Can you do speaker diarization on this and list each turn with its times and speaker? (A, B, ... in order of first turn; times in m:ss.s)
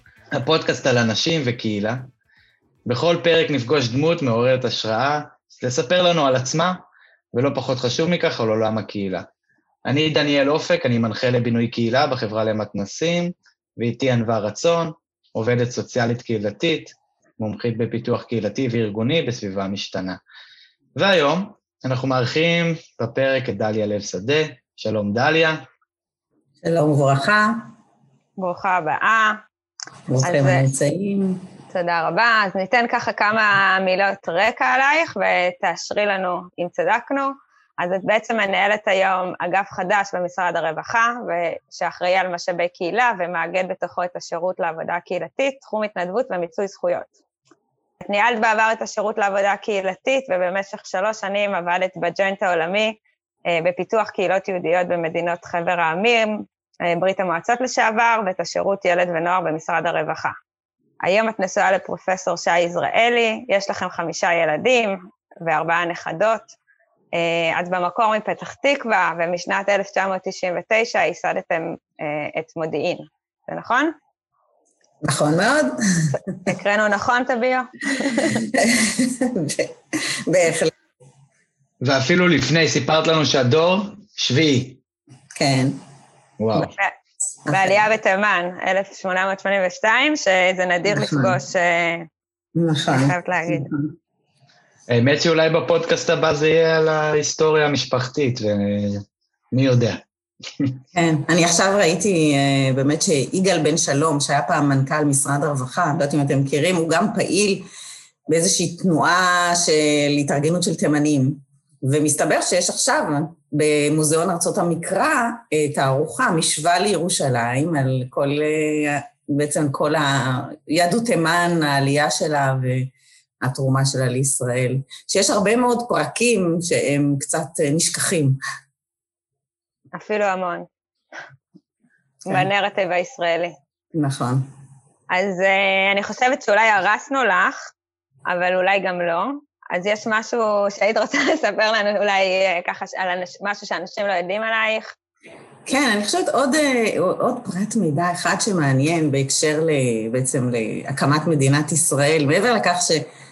0:00.4-0:02.1 A
0:02.9-0:06.8 A
0:07.3-0:09.3 A
0:09.8-0:20.2 A
0:21.0-0:25.6 A
0:26.6-0:27.7 B
0:28.4-0:29.4 C
0:30.1-0:31.4 B
0:30.2-0:30.6 C
0:31.7-0:47.1 C
0:48.0-0:53.0 C
0:53.5-1:00.3 C
1:01.0-1:06.5 C
1:07.2-1:13.9 C
1:15.0-1:16.3 B
1:16.4-1:18.4 C
1:18.4-1:20.7 B
1:21.8-1:24.8 A
1:25.3-1:25.8 B
1:26.4-1:26.7 A
1:27.5-1:27.8 B
1:27.5-1:32.1 C
1:30.9-1:31.4 B
1:32.6-1:33.9 B
1:32.9-1:33.7 C
1:34.9-1:40.0 A
1:40.9-1:47.7 B
1:48.3-2:08.4 B
2:09.9-2:10.7 C
2:12.3-2:13.6 C
2:13.9-2:14.4 B
2:15.1-2:17.7 C
2:18.3-2:24.9 C
2:25.7-2:33.1 B